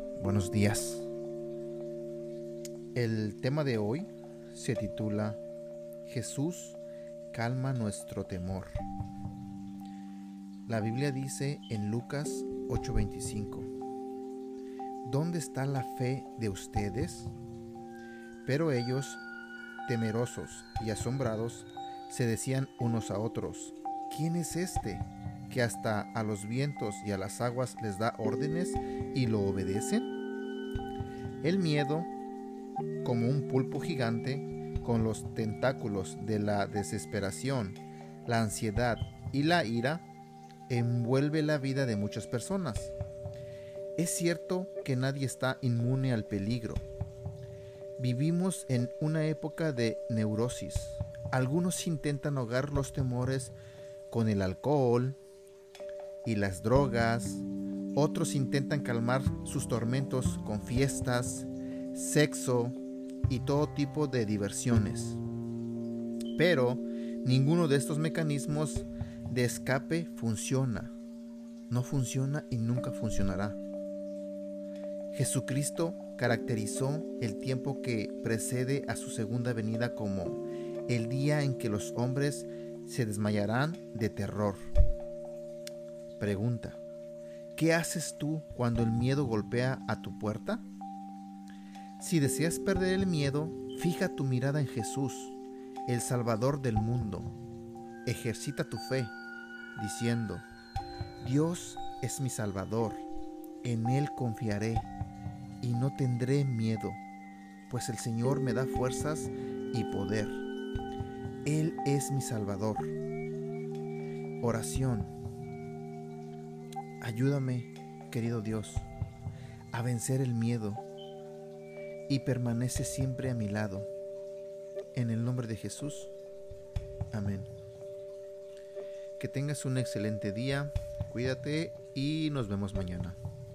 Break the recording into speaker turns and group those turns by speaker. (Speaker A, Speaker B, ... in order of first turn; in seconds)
Speaker A: 0.2-1.1, 3.0-5.4, 6.0-6.8, 7.3-8.8, 10.7-13.7, 15.0-17.3, 18.4-19.2, 19.9-30.1, 31.4-32.1, 33.0-40.1, 40.7-43.0, 44.0-46.8, 48.0-53.5, 54.1-55.2, 56.2-62.8, 63.3-65.2, 66.4-71.0, 71.7-73.6, 75.1-84.6, 86.2-86.8, 87.5-90.7, 92.0-97.3, 98.1-99.2, 99.8-100.5, 101.2-103.0, 103.6-104.9, 105.6-107.0, 107.7-110.4, 111.5-113.0, 114.4-115.1, 117.0-118.9, 119.7-120.8, 122.1-123.9, 124.9-126.1, 127.1-127.5, 129.2-133.2